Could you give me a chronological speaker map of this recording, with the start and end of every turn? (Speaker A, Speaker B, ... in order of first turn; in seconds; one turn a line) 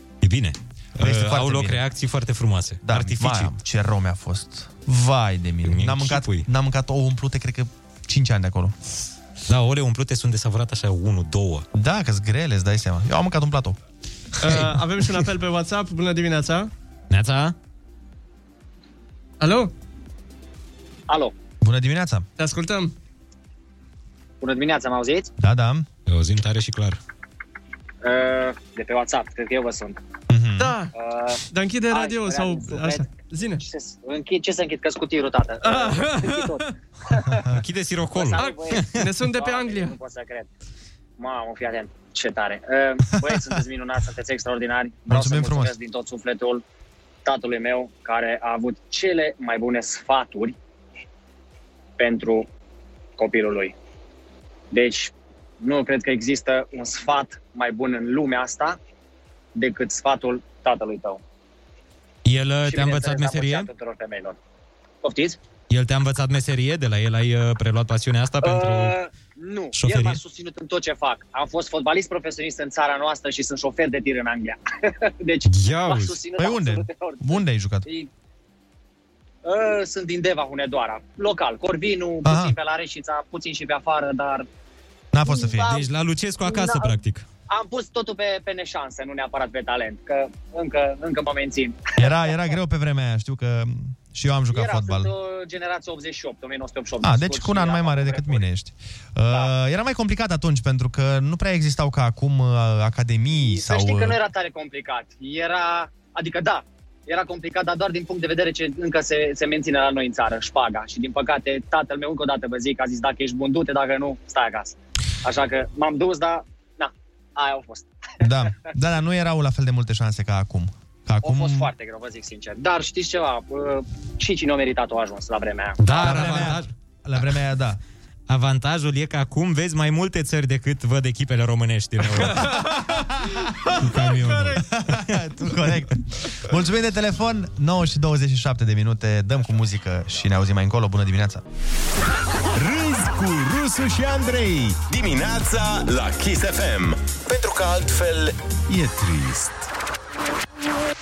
Speaker A: 0.2-3.5
Speaker B: 1.0-1.8
Speaker B: 2.8-8.7
Speaker A: 5.6-6.5
Speaker A: 9.5-11.6
Speaker B: 11.7-13.8
Speaker C: 14.4-16.7
Speaker A: 14.4-14.8
Speaker A: 17.1-17.5
Speaker C: 19.4-19.7
Speaker D: 21.1-21.3
Speaker B: 21.6-22.2
Speaker C: 22.4-22.9
Speaker D: 24.4-25.3
Speaker B: 25.4-25.9
Speaker A: 26.1-27.0
Speaker D: 28.0-30.0
Speaker B: 30.3-30.8
Speaker C: 30.6-30.9
Speaker D: 30.9-33.1
Speaker C: 31.5-33.6
Speaker D: 33.6-37.4
Speaker C: 35.6-36.7
Speaker A: 37.5-39.0
Speaker D: 38.1-40.5
Speaker C: 38.4-40.0
Speaker D: 41.2-46.6
Speaker B: 43.1-43.6
Speaker B: 45.1-45.8
Speaker D: 47.2-50.6
Speaker D: 52.0-52.5
Speaker D: 53.2-53.8
Speaker D: 54.7-58.8
Speaker D: 59.5-61.2
Speaker A: 62.2-63.7
Speaker D: 62.6-64.4
Speaker D: 65.0-65.4
Speaker A: 65.7-69.0
Speaker D: 68.4-78.1
Speaker A: 69.7-70.2
Speaker A: 75.5-76.2
Speaker B: 76.3-77.9
Speaker D: 79.4-84.5
Speaker B: 82.2-82.5
Speaker B: 85.1-85.8
Speaker D: 85.2-85.8
Speaker A: 85.7-87.2
Speaker D: 86.4-86.9
Speaker D: 87.5-92.5
Speaker B: 92.0-95.1
Speaker D: 94.5-98.5
Speaker B: 97.0-104.2
Speaker D: 103.3-118.5
Speaker B: 118.2-121.7
Speaker D: 121.2-125.8
Speaker A: 125.8-126.7
Speaker B: 125.9-127.8
Speaker A: 128.3-132.6
Speaker C: 132.2-132.9
Speaker C: 133.7-134.6
Speaker A: 133.7-135.8
Speaker B: 134.7-141.4
Speaker E: 142.5-149.6